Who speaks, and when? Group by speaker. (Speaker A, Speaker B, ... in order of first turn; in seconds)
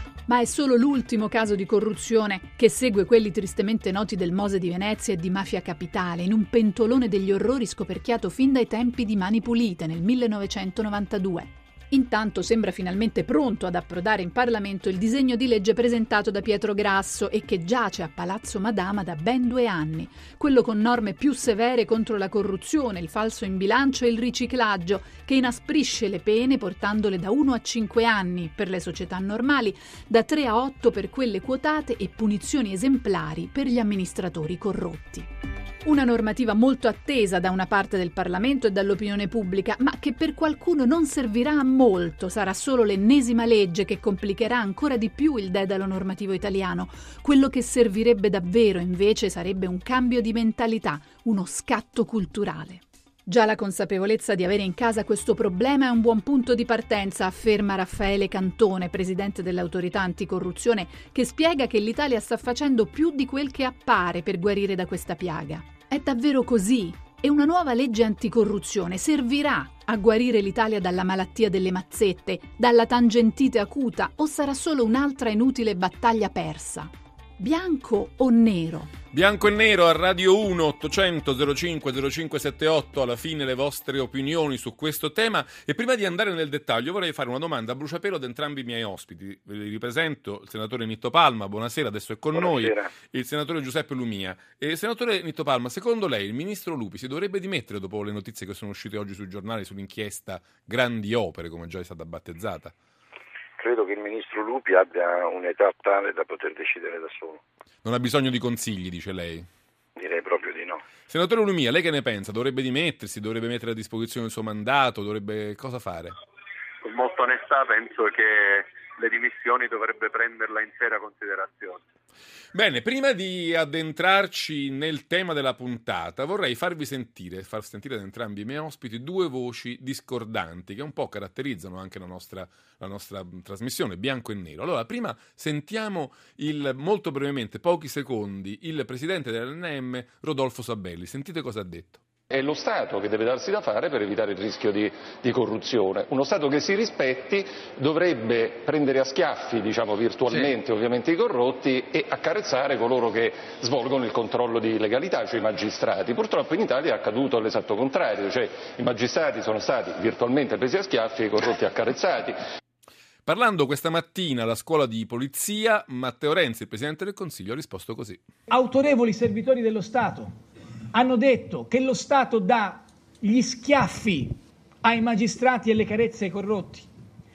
Speaker A: 0.2-35.3, 35.8-78.9
Speaker B: 79.1-102.7, 107.8-109.5, 111.1-116.2, 122.5-142.0, 163.2-168.2
Speaker C: 92.3-92.9, 103.6-107.4, 110.0-110.8
Speaker D: 116.8-121.8
Speaker E: 142.3-162.4
Speaker F: 168.5-170.4, 170.9-176.9